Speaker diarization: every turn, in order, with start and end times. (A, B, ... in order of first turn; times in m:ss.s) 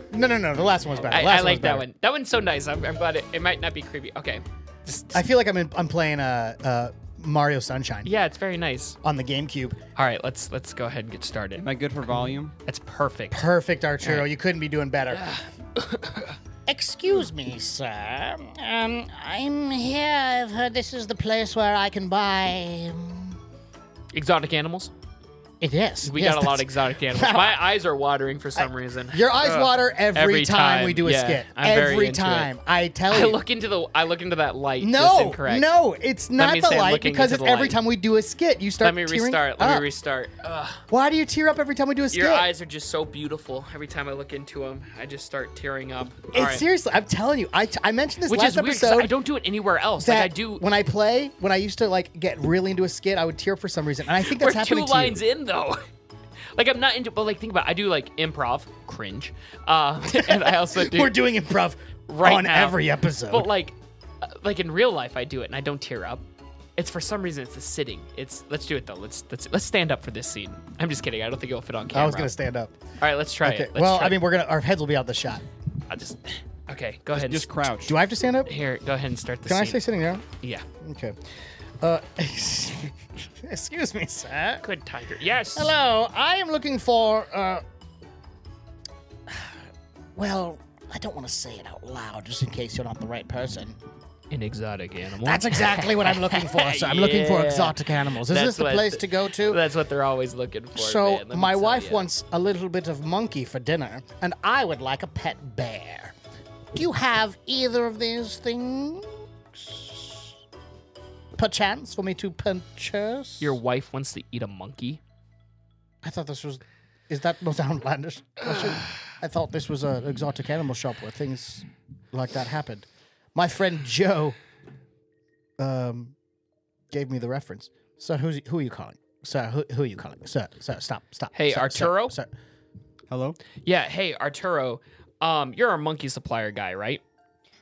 0:00.1-0:01.9 A
0:01.0-0:05.2 B
0:05.1-0:08.1 A
0:08.0-0:09.0 B
0:09.0-0:09.8 A
0:10.0-0:11.6 B
0:11.6-0:12.5 C
0:12.6-0:13.5 B
0:13.3-0:15.3 A
0:14.0-0:14.3 B
0:15.1-0:16.4 B
0:16.7-0:23.4 A
0:24.1-0:24.9 B
0:25.6-0:27.6 A
0:26.0-0:32.5 B
0:28.6-0:33.4 A
0:33.1-0:35.7 B
0:34.8-0:39.9 A
0:36.4-0:37.8 B
0:38.8-0:40.8 B
0:40.9-0:42.5 A
0:42.1-0:46.6 B
0:46.3-0:49.1 A
0:48.3-0:50.6 B
0:50.0-0:55.2 A
0:54.2-0:55.8 B
0:56.6-1:01.2 B
1:00.1-1:03.5 A
1:02.1-1:06.2 B
1:06.8-1:12.3 B
1:11.9-1:12.8 A
1:13.0-1:14.2 B
1:13.4-1:15.4 A
1:15.9-1:17.5 B
1:17.1-1:18.0 C
1:17.8-1:18.5 A
1:18.5-1:20.6 B
1:19.4-1:20.2 A
1:20.8-1:21.2 A
1:21.8-1:24.6 A
1:24.6-1:25.7 B
1:25.6-1:27.6 A
1:29.3-1:29.6 A
1:30.2-1:33.8 A
1:34.3-1:42.1 B
1:35.2-1:39.6 A
1:40.8-1:46.2 A
1:46.7-1:50.3 A
1:51.4-1:53.6 A
1:53.4-1:55.0 B
1:56.0-2:04.4 A
2:05.6-2:06.2 A
2:06.9-2:12.3 A
2:11.3-2:12.2 B
2:13.1-2:13.4 C
2:13.6-2:17.0 B